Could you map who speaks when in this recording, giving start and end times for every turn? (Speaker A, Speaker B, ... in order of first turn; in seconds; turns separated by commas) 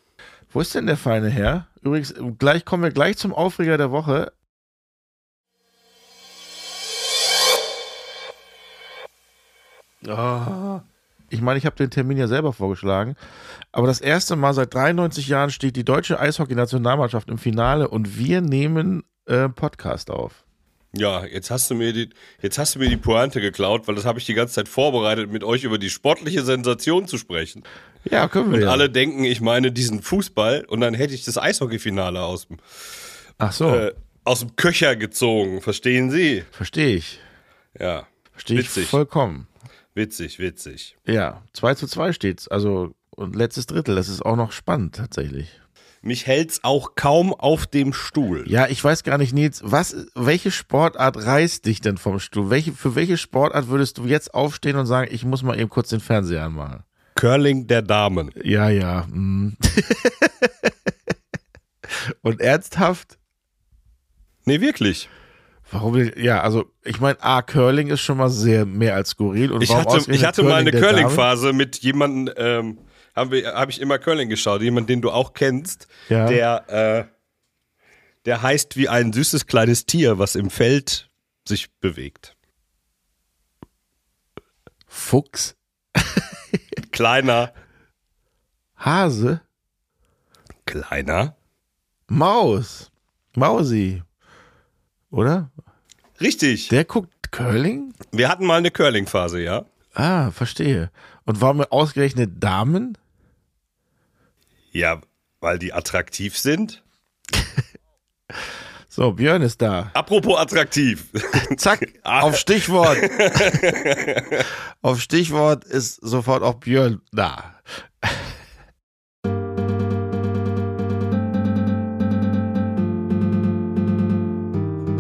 Speaker A: 0.5-4.3, Speaker A: 10.0-13.2, Speaker A: 13.7-20.4, Speaker B: 20.9-27.6, Speaker A: 28.1-28.9, Speaker B: 28.5-32.6, Speaker A: 33.4-33.9, Speaker B: 33.7-36.5, Speaker A: 36.5-37.2, Speaker B: 37.8-39.0, Speaker A: 38.4-39.5, Speaker B: 40.0-40.9, Speaker A: 41.1-45.5, Speaker B: 46.0-48.5, Speaker A: 48.5-56.8, Speaker B: 57.1-58.3, Speaker A: 58.4-60.7, Speaker A: 61.9-63.1, Speaker B: 64.5-65.1, Speaker A: 65.7-71.3, Speaker B: 69.6-77.1, Speaker A: 76.1-76.4, Speaker B: 78.2-82.3, Speaker A: 84.9-86.3, Speaker B: 86.9-87.5, Speaker A: 88.8-89.4, Speaker B: 90.7-91.3, Speaker A: 92.1-94.0, Speaker A: 95.1-95.5, Speaker B: 96.2-96.7, Speaker A: 96.7-98.0, Speaker B: 98.1-99.7, Speaker A: 100.0-103.0, Speaker B: 104.7-106.8, Speaker A: 108.9-109.9, Speaker B: 109.9-114.5, Speaker A: 111.4-113.1, Speaker A: 114.8-118.3